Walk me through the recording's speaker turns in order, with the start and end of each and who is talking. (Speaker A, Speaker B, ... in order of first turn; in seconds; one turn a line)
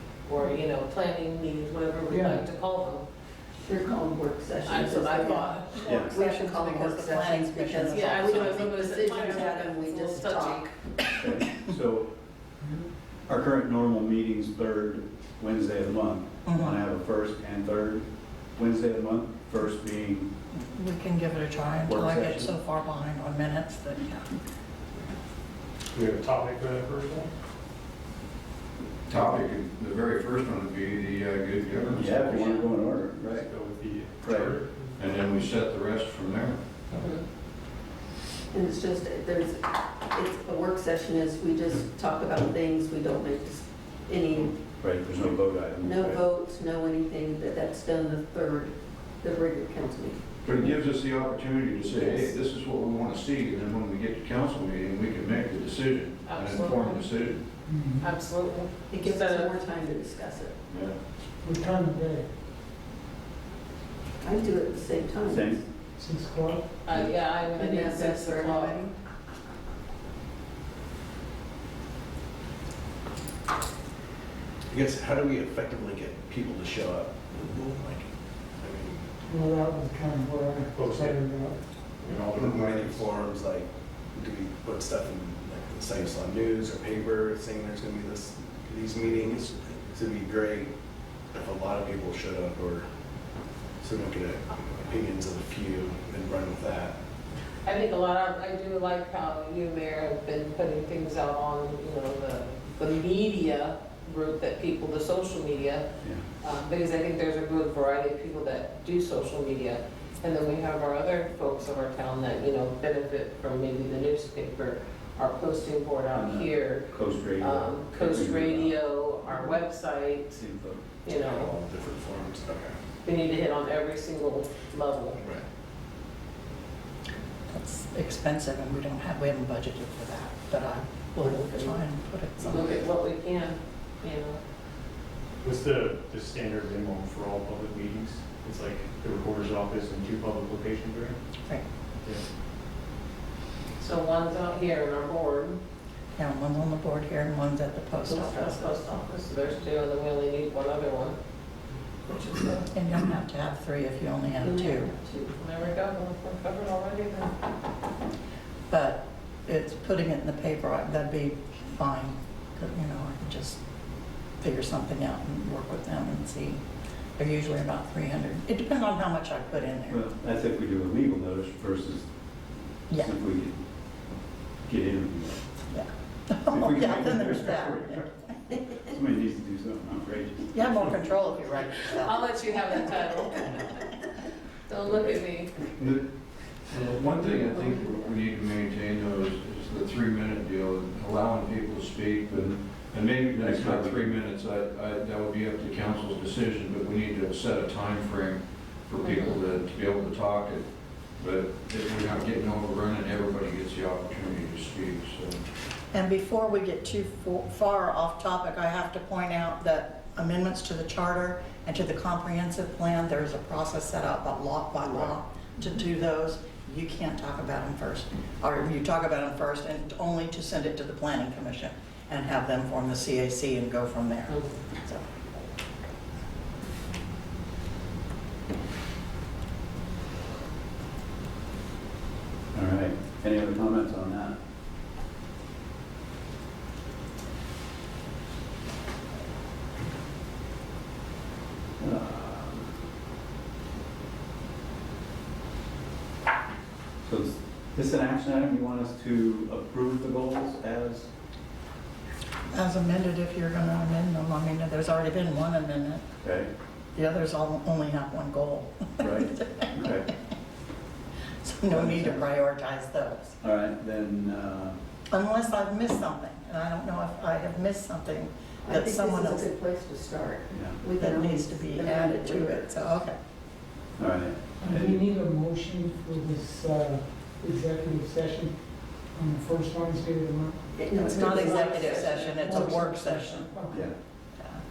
Speaker A: 0.2-3.0
Speaker B: 2.1-2.4
Speaker C: 3.6-10.6
Speaker A: 4.6-5.9
Speaker D: 5.7-8.7
Speaker E: 5.9-6.2
Speaker A: 7.9-10.7
Speaker E: 11.2-12.1
Speaker E: 13.3-20.3
Speaker D: 16.4-16.8
Speaker D: 20.5-24.2
Speaker E: 21.9-22.5
Speaker F: 25.9-27.3
Speaker G: 29.1-32.1
Speaker F: 31.8-35.0
Speaker E: 31.9-33.5
Speaker E: 34.2-34.5
Speaker G: 35.0-36.6
Speaker A: 36.9-37.2
Speaker C: 38.5-44.6
Speaker E: 44.8-46.2
Speaker C: 45.8-50.2
Speaker G: 50.4-57.4
Speaker C: 52.0-52.3
Speaker A: 56.3-57.1
Speaker B: 57.6-58.1
Speaker A: 58.0-59.5
Speaker C: 58.9-60.5
Speaker G: 60.7-61.0
Speaker B: 61.4-62.3
Speaker C: 64.2-65.6
Speaker E: 65.2-65.6
Speaker B: 66.0-66.7
Speaker A: 66.8-68.8
Speaker C: 67.5-68.9
Speaker H: 74.7-79.0
Speaker B: 79.2-81.6
Speaker F: 80.7-83.2
Speaker H: 82.0-90.7
Speaker H: 91.3-92.9
Speaker H: 93.8-96.9
Speaker A: 97.6-105.8
Speaker A: 106.4-120.4
Speaker E: 116.1-118.8
Speaker E: 120.3-120.8
Speaker A: 121.0-121.5
Speaker H: 121.2-122.8
Speaker A: 123.0-125.2
Speaker H: 125.2-125.4
Speaker D: 127.5-132.6
Speaker A: 131.2-131.7
Speaker A: 132.4-134.4
Speaker F: 135.4-141.2
Speaker A: 143.8-145.6
Speaker D: 146.2-148.7
Speaker A: 148.1-151.2
Speaker A: 152.1-152.6
Speaker D: 152.6-154.9
Speaker C: 154.4-155.3
Speaker A: 155.4-157.3
Speaker D: 158.7-163.6
Speaker D: 164.4-166.6
Speaker D: 167.2-170.0
Speaker E: 169.9-172.1
Speaker E: 173.0-173.6
Speaker E: 174.7-175.4
Speaker D: 175.7-177.8
Speaker E: 176.5-178.1
Speaker E: 178.7-180.8
Speaker D: 180.5-182.9
Speaker A: 182.0-183.9
Speaker A: 184.7-185.5
Speaker G: 186.7-205.4
Speaker E: 193.3-194.2
Speaker A: 199.0-199.4
Speaker D: 205.9-225.0
Speaker E: 232.5-234.4
Speaker E: 241.8-242.7
Speaker E: 247.0-251.1
Speaker D: 252.5-256.0
Speaker E: 256.2-256.5
Speaker D: 256.9-259.8
Speaker E: 259.0-260.1
Speaker D: 261.4-263.4
Speaker E: 261.7-262.3
Speaker E: 263.4-264.8
Speaker D: 265.1-269.5
Speaker C: 268.6-272.9
Speaker E: 270.5-270.8
Speaker D: 270.9-273.1
Speaker E: 274.0-275.1
Speaker B: 274.6-281.7
Speaker C: 280.7-282.6
Speaker D: 280.9-283.6
Speaker B: 282.4-283.9
Speaker E: 283.7-283.9